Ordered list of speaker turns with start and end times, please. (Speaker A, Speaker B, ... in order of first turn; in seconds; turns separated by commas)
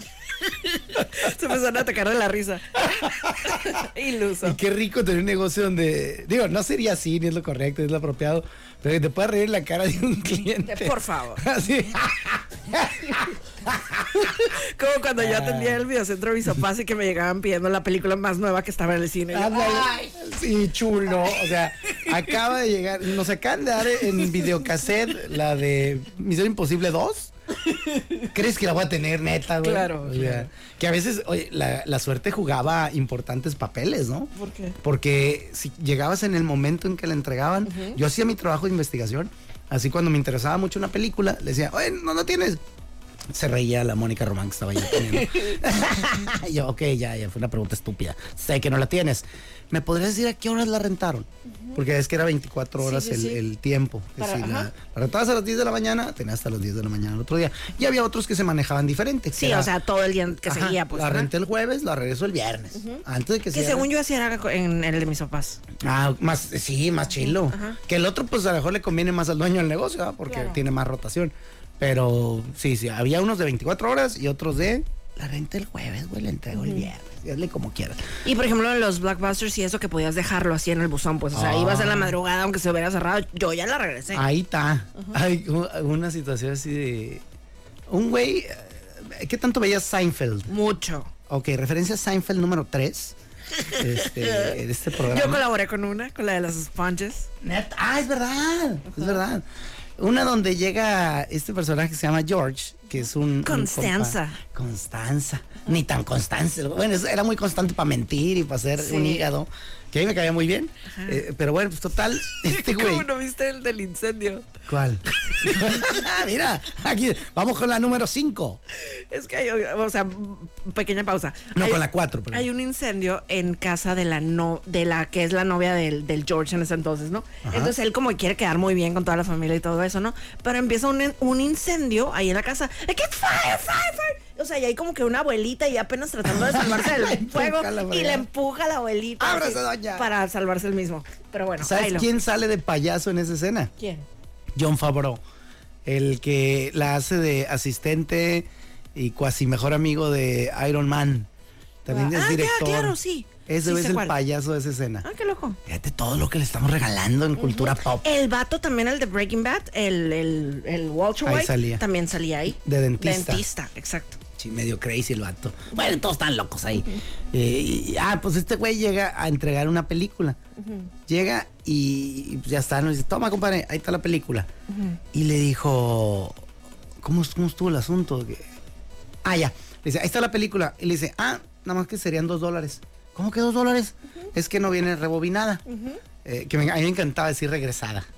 Speaker A: 0.5-4.6, Speaker B: 2.9-3.7, Speaker B: 4.4-14.4, Speaker A: 10.6-11.4, Speaker A: 14.2-20.1, Speaker B: 15.2-15.8, Speaker B: 19.3-27.3, Speaker A: 21.9-22.3, Speaker A: 24.0-24.6, Speaker A: 27.6-28.3, Speaker B: 28.3-42.6, Speaker A: 29.6-30.5, Speaker A: 34.4-34.8, Speaker A: 37.6-38.0, Speaker B: 43.3-59.7, Speaker A: 44.9-45.6, Speaker A: 51.5-51.8, Speaker A: 52.8-53.4, Speaker A: 54.2-54.7, Speaker A: 59.3-61.3, Speaker B: 60.4-63.9, Speaker A: 62.7-65.6, Speaker B: 65.8-78.0, Speaker A: 67.2-67.8, Speaker A: 70.3-70.6, Speaker A: 76.5-76.9, Speaker A: 78.2-84.2, Speaker B: 81.3-82.2, Speaker B: 84.1-87.2, Speaker B: 87.9-90.5, Speaker A: 90.5-91.1, Speaker B: 91.3-93.1, Speaker A: 93.6-97.3, Speaker B: 93.7-95.4, Speaker B: 97.4-99.4, Speaker A: 98.9-99.2, Speaker B: 100.0-113.1, Speaker A: 102.9-104.4, Speaker A: 108.8-109.3, Speaker A: 110.9-111.2, Speaker A: 112.4-114.5, Speaker B: 114.7-118.6, Speaker A: 115.3-115.9, Speaker A: 118.8-142.1, Speaker B: 121.5-122.5, Speaker B: 127.4-127.7, Speaker B: 136.2-138.3, Speaker B: 139.2-140.1, Speaker B: 141.6-143.7, Speaker A: 143.8-144.1, Speaker B: 144.5-145.2, Speaker B: 145.8-151.3, Speaker B: 151.8-155.1, Speaker A: 151.9-154.1, Speaker A: 155.0-155.6, Speaker B: 155.7-158.1, Speaker A: 157.4-164.2, Speaker B: 161.2-161.8, Speaker B: 162.6-163.4, Speaker B: 164.4-170.4, Speaker A: 170.6-170.9, Speaker B: 171.1-174.5, Speaker A: 174.7-175.0, Speaker B: 175.1-176.4, Speaker B: 177.0-178.5, Speaker B: 179.2-185.6, Speaker A: 185.7-186.0, Speaker B: 186.2-188.1